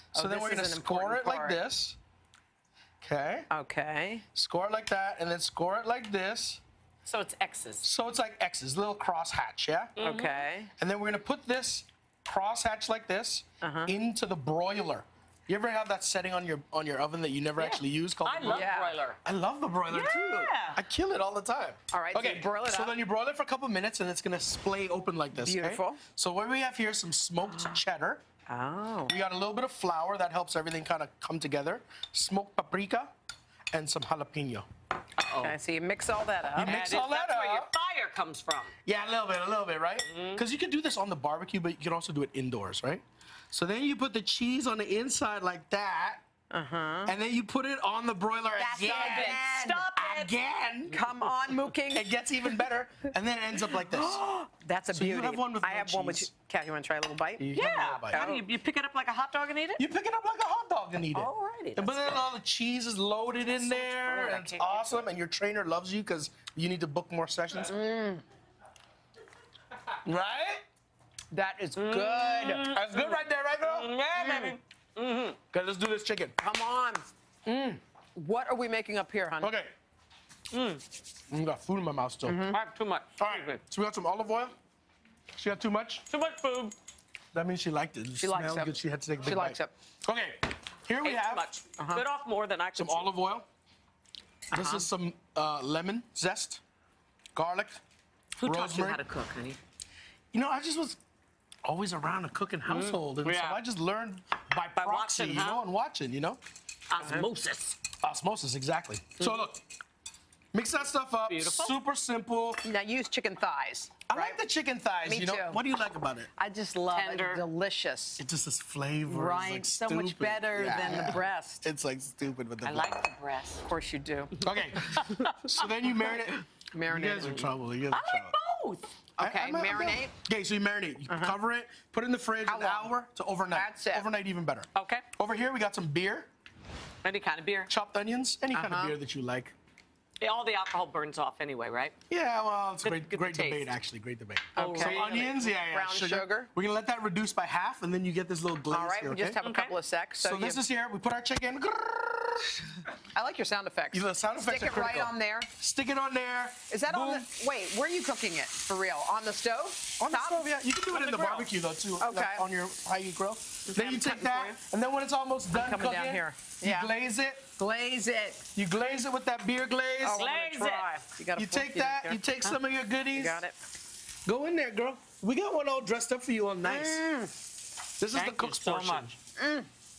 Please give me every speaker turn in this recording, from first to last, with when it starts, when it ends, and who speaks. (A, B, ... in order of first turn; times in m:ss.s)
0:00.1-0:01.6 A
0:00.2-0:02.0 B
0:03.0-0:03.5 B
0:03.5-0:04.2 A
0:04.3-0:06.6 B
0:07.0-0:07.9 C
0:07.8-0:09.9 B
0:10.0-0:10.5 C
0:10.0-0:10.7 A
0:10.8-0:18.7 B
0:13.6-0:14.0 A
0:17.6-0:19.2 C
0:18.4-0:19.0 A
0:19.2-0:28.2 B
0:19.9-0:20.8 C
0:21.9-0:23.0 A
0:25.3-0:26.0 A
0:28.5-0:29.1 A
0:29.1-0:33.1 B
0:33.7-0:34.7 B
0:35.2-0:35.6 C
0:35.4-0:37.0 A
0:36.6-0:37.7 B
0:36.6-0:38.7 C
0:38.8-0:46.2 B
0:40.1-0:40.4 C
0:46.5-0:47.2 A
0:47.1-0:51.0 B
0:48.6-0:49.8 A
0:48.8-0:50.3 C
0:50.9-0:52.6 A
0:51.9-0:54.2 B
0:53.8-0:57.5 A
0:54.9-0:56.3 B
0:57.4-0:58.2 B
0:57.5-0:59.8 C
0:58.1-0:58.4 A
0:59.8-1:07.7 B
1:01.1-1:02.2 A
1:03.5-1:05.1 C
1:07.6-1:08.2 A
1:10.0-1:10.6 B
1:11.3-1:12.6 A
1:11.8-1:15.4 C
1:12.4-1:13.9 B
1:14.2-1:14.6 A
1:15.5-1:16.4 B
1:16.4-1:17.0 A
1:17.5-1:17.8 B
1:18.2-1:19.6 A
1:19.4-1:19.7 B
1:20.5-1:20.8 C
1:21.3-1:22.4 B
1:22.2-1:22.6 A
1:22.5-1:23.6 C
1:23.2-1:24.6 B
1:25.4-1:26.0 B
1:26.1-1:26.8 C
1:27.3-1:31.5 B
1:28.2-1:29.7 A
1:31.0-1:33.1 C
1:31.8-1:32.0 A
1:32.8-1:33.5 B
1:34.5-1:36.6 B
1:34.5-1:34.9 A
1:37.4-1:37.8 B
1:38.4-1:39.6 C
1:38.4-1:39.0 B
1:40.3-1:41.0 B
1:41.6-1:46.4 B
1:42.7-1:43.6 C
1:44.7-1:45.6 C
1:46.9-1:47.8 C
1:47.9-1:49.6 B
1:49.2-1:49.5 C
1:50.5-1:52.6 B
1:51.3-1:51.8 C
1:52.6-1:54.4 A
1:54.1-1:56.3 B
1:55.0-1:55.6 A
1:56.4-1:58.2 A
1:56.9-1:57.4 C
1:58.2-2:03.0 B
1:59.1-2:01.7 A
2:02.6-2:03.6 C
2:03.6-2:04.3 A
2:04.4-2:05.3 C
2:04.4-2:08.4 B
2:06.7-2:07.5 A
2:07.9-2:08.9 C
2:09.2-2:10.1 A
2:09.2-2:16.3 B
2:11.1-2:11.4 A
2:12.4-2:13.0 A
2:13.5-2:14.1 A
2:14.8-2:15.1 C
2:17.0-2:17.7 C
2:17.7-2:19.5 B
2:18.5-2:19.0 A
2:20.2-2:22.0 C
2:22.1-2:29.4 B
2:22.8-2:23.8 C
2:24.6-2:25.5 C
2:24.6-2:26.5 A
2:28.7-2:30.6 A
2:29.4-2:29.7 C
2:30.2-2:32.1 B
2:33.1-2:35.5 A
2:33.9-2:37.3 B
2:36.7-2:40.5 A
2:40.0-2:47.4 B
2:40.9-2:41.5 C
2:42.0-2:42.4 A
2:43.7-2:44.6 C
2:45.5-2:46.9 A
2:47.6-2:48.4 A
2:48.6-2:50.2 B
2:50.0-2:52.2 A
2:50.1-2:50.9 C
2:51.4-2:53.4 B
2:53.1-2:53.6 A
2:54.3-2:57.0 B
2:56.6-2:57.3 A
2:58.0-2:59.2 B
2:58.1-2:59.1 C
2:59.4-2:59.7 A